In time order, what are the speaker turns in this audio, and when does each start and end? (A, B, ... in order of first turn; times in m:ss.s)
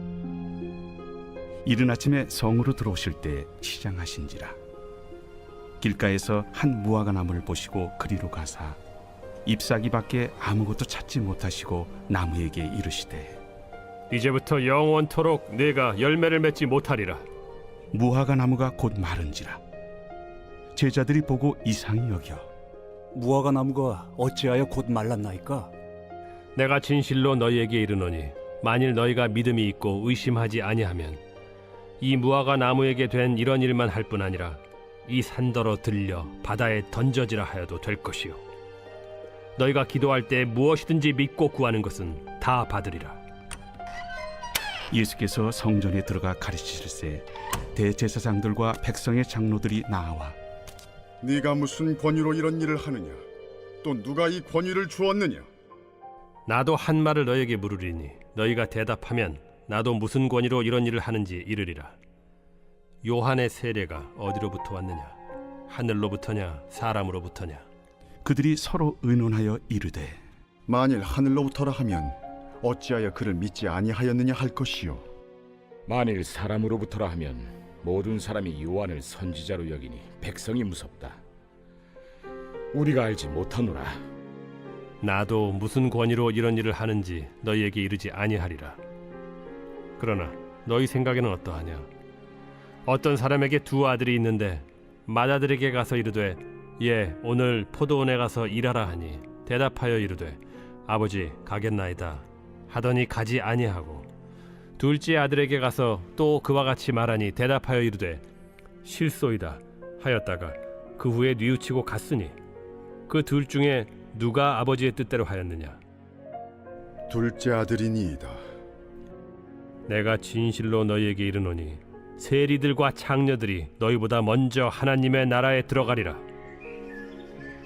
0:01.6-0:04.6 A
0:05.8-0:08.8 A
0:09.4-0:13.4 A
0:14.1-0:17.2 B
0:17.9-0:19.6 A
0:20.7-0:22.5 A
0:23.2-0:25.7 C
0:26.6-0:31.2 B
0:32.0-0:38.4 B
0:39.6-0:43.2 B
0:44.9-0:50.4 A
0:51.2-0:53.2 D
0:53.8-0:55.5 D
0:56.5-1:01.9 B
1:03.0-1:05.2 B
1:05.7-1:07.6 B
1:08.2-1:10.2 A
1:10.7-1:15.0 D
1:15.9-1:21.2 E
1:22.7-1:24.0 E
1:25.0-1:28.8 B
1:30.0-1:31.9 B
1:32.8-1:44.1 B
1:44.8-1:48.2 B
1:48.8-1:52.3 B
1:53.1-1:55.8 B
1:57.1-1:58.4 D
1:59.9-2:06.2 B